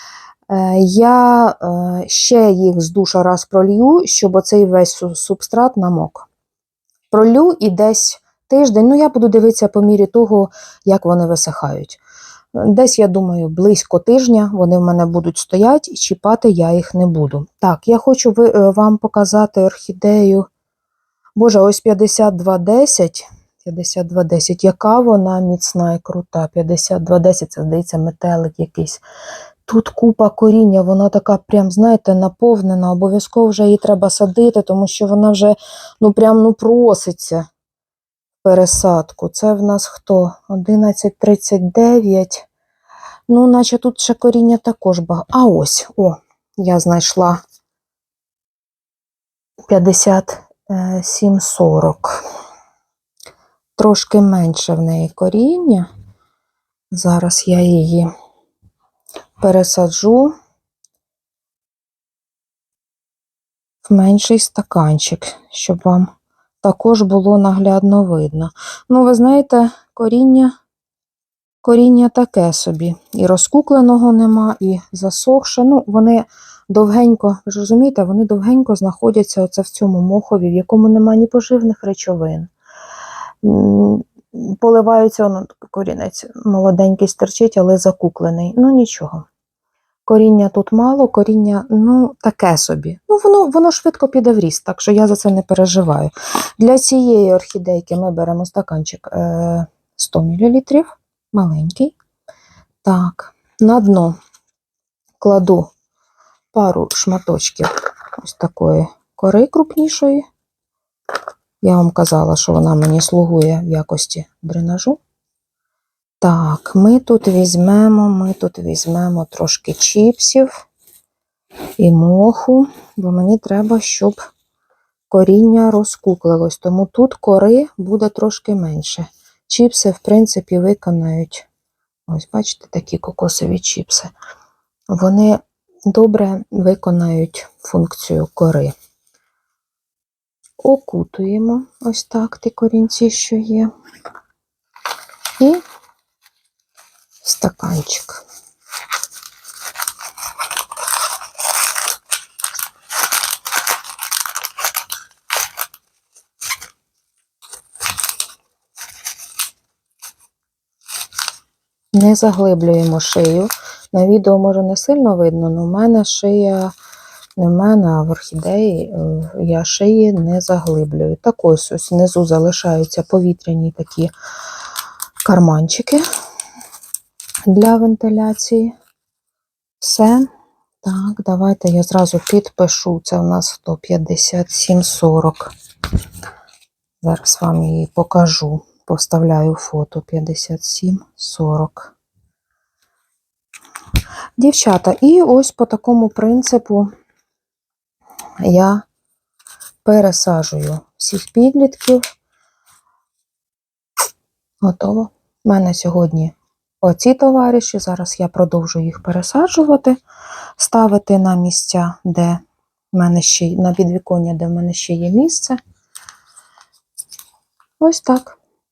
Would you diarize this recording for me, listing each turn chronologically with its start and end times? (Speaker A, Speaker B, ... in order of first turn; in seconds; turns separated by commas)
Speaker A: 0.5-6.3, Speaker A: 7.1-12.0, Speaker A: 12.6-20.5, Speaker A: 21.4-29.0, Speaker A: 29.7-37.5, Speaker A: 38.4-42.5, Speaker A: 43.3-47.4, Speaker A: 49.7-52.2, Speaker A: 53.8-55.9, Speaker A: 56.9-58.1, Speaker A: 59.4-60.3, Speaker A: 63.8-66.1, Speaker A: 66.6-70.5, Speaker A: 71.6-82.5, Speaker A: 83.4-89.3, Speaker A: 90.1-102.0, Speaker A: 102.8-104.2, Speaker A: 105.2-105.7, Speaker A: 106.5-110.2, Speaker A: 111.6-115.0, Speaker A: 116.2-120.7, Speaker A: 121.8-124.3, Speaker A: 125.1-131.5, Speaker A: 132.1-134.1, Speaker A: 134.9-138.7, Speaker A: 140.6-143.7, Speaker A: 145.4-145.6, Speaker A: 147.2-148.2, Speaker A: 161.9-166.7, Speaker A: 167.4-174.1, Speaker A: 175.2-176.0, Speaker A: 177.5-178.7, Speaker A: 179.8-180.3, Speaker A: 180.8-185.5, Speaker A: 187.0-191.9, Speaker A: 194.4-196.9, Speaker A: 198.4-198.8, Speaker A: 199.8-202.0, Speaker A: 204.6-210.0, Speaker A: 210.6-212.4, Speaker A: 212.9-215.6, Speaker A: 217.8-218.4